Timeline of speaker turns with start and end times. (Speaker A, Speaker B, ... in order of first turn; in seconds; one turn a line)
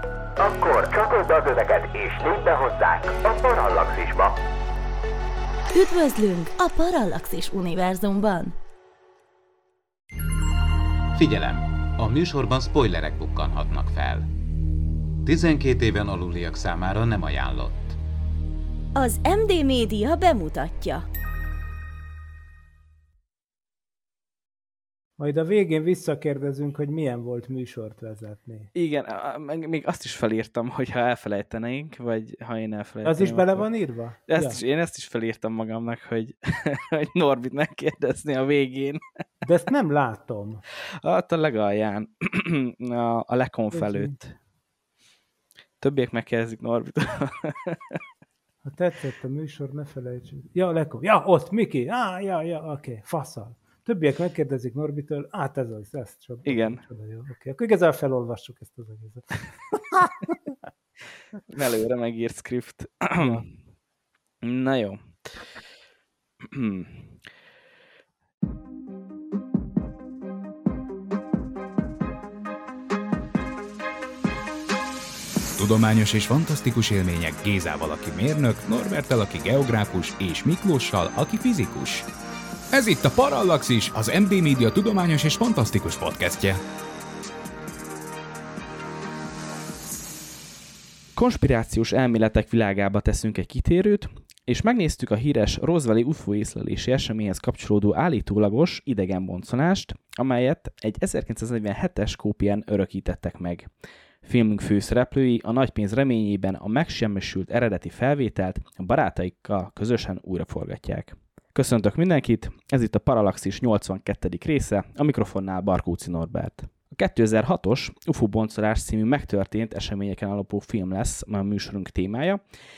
Speaker A: 0.4-4.4
Speaker B: 5.7-8.5
Speaker C: 11.1-14.3
Speaker C: 15.2-18.0
Speaker B: 18.9-21.0
Speaker D: 25.2-28.7
Speaker E: 28.7-33.6
Speaker D: 33.0-34.6
Speaker E: 34.3-39.0
Speaker D: 39.4-40.6
Speaker E: 41.0-44.3
Speaker D: 43.7-44.1
Speaker E: 45.8-48.0
Speaker D: 48.6-59.4
Speaker E: 56.5-56.8
Speaker E: 61.5-63.5
Speaker E: 64.4-65.0
Speaker E: 66.4-67.1
Speaker F: 75.5-82.0
Speaker F: 82.7-86.6
Speaker E: 91.2-103.7
Speaker E: 104.2-122.4